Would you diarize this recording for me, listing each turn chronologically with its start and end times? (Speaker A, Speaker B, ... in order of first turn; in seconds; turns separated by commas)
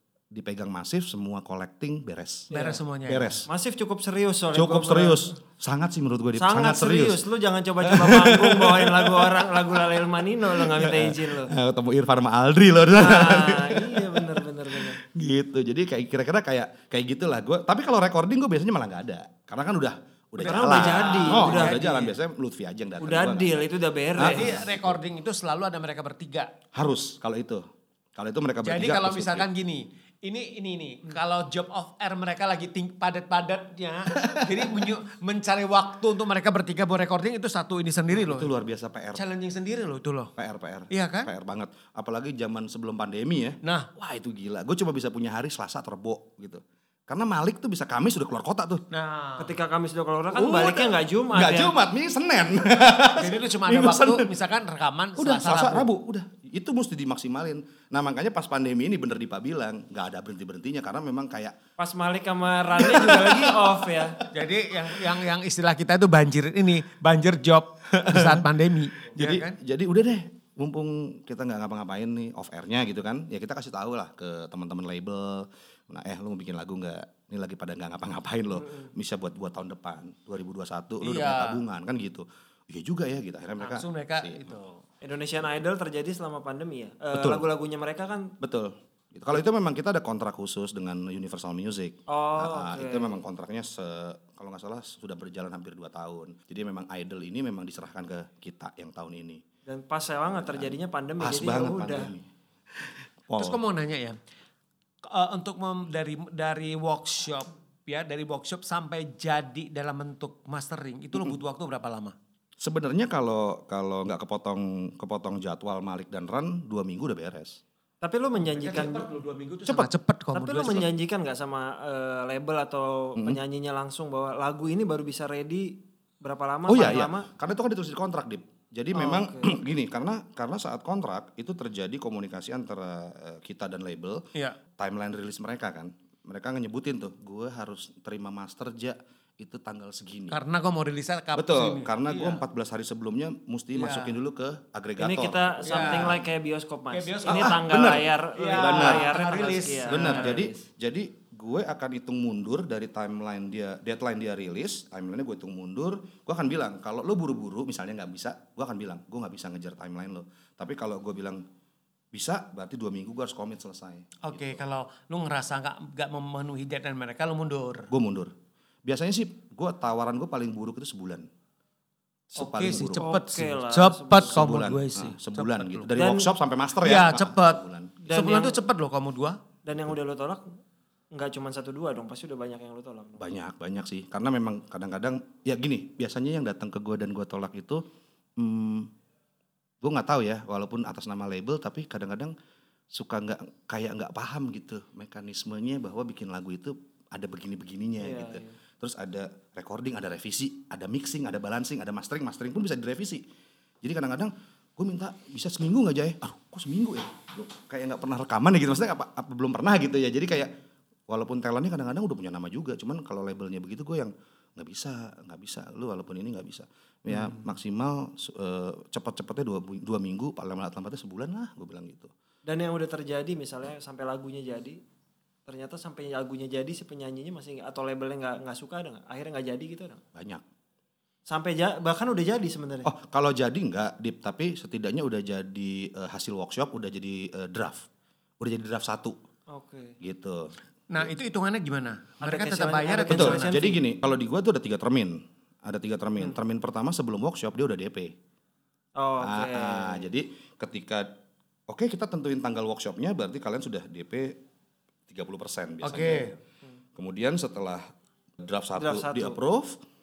Speaker A: 0.3-2.5, Speaker B: 2.5-2.8, Speaker C: 2.5-3.4, Speaker A: 3.1-3.5, Speaker B: 3.5-5.3, Speaker A: 4.5-7.2, Speaker B: 6.4-11.5, Speaker A: 7.8-9.8, Speaker A: 10.5-25.0, Speaker B: 13.0-15.0, Speaker C: 20.4-22.1, Speaker B: 20.4-21.9, Speaker B: 23.0-24.6, Speaker C: 24.2-26.5, Speaker A: 26.7-29.5, Speaker C: 28.6-38.5, Speaker A: 34.1-34.9, Speaker A: 38.1-39.2, Speaker C: 39.1-40.3, Speaker A: 40.4-48.9, Speaker C: 40.9-41.3, Speaker C: 43.6-43.9, Speaker C: 48.9-49.5, Speaker B: 49.4-51.7, Speaker A: 50.3-54.3, Speaker C: 53.1-55.9, Speaker A: 55.2-61.6, Speaker B: 61.8-64.2, Speaker A: 62.8-63.7, Speaker C: 64.3-69.6, Speaker A: 67.9-68.5, Speaker A: 69.1-84.5, Speaker B: 78.5-78.9, Speaker C: 81.0-81.6, Speaker C: 83.6-84.8, Speaker B: 85.0-88.3, Speaker A: 87.1-87.5, Speaker A: 88.4-99.4, Speaker B: 92.1-93.2, Speaker B: 99.7-102.1, Speaker A: 100.5-103.6, Speaker C: 103.3-104.2, Speaker C: 105.0-112.2, Speaker A: 112.6-117.6, Speaker B: 118.0-119.1, Speaker C: 118.4-120.9, Speaker B: 120.3-127.3, Speaker A: 126.7-134.2, Speaker B: 128.9-129.6, Speaker A: 134.8-140.4, Speaker C: 140.3-142.4, Speaker A: 141.3-146.3, Speaker C: 143.8-144.2, Speaker B: 145.0-150.7, Speaker C: 145.7-146.2, Speaker C: 146.9-147.6, Speaker A: 147.3-149.2, Speaker C: 148.3-150.3, Speaker A: 149.9-161.4, Speaker A: 162.1-164.6, Speaker C: 164.2-167.9, Speaker A: 167.9-168.3, Speaker A: 168.8-171.3, Speaker A: 172.3-173.0, Speaker C: 172.4-175.9, Speaker B: 172.9-174.4, Speaker A: 174.3-178.0, Speaker B: 175.9-176.3, Speaker C: 176.8-179.4, Speaker B: 178.0-178.6, Speaker B: 179.7-180.5, Speaker B: 181.1-183.3, Speaker A: 183.2-187.8, Speaker A: 188.4-188.9, Speaker A: 189.8-192.3, Speaker A: 192.9-203.2, Speaker B: 198.0-198.6, Speaker A: 203.8-210.5, Speaker A: 211.1-222.1, Speaker B: 222.5-224.8, Speaker B: 225.5-230.0, Speaker A: 230.2-230.4, Speaker B: 231.3-232.9, Speaker A: 232.8-237.9, Speaker A: 238.4-239.2, Speaker B: 239.5-240.0, Speaker A: 240.0-241.1, Speaker C: 240.9-243.7, Speaker B: 242.2-243.8, Speaker A: 243.1-248.1, Speaker B: 249.0-250.1, Speaker A: 249.2-251.1, Speaker A: 251.7-254.4, Speaker A: 255.1-256.4, Speaker C: 255.8-256.4, Speaker A: 256.9-257.8, Speaker A: 258.4-259.8, Speaker B: 258.8-259.4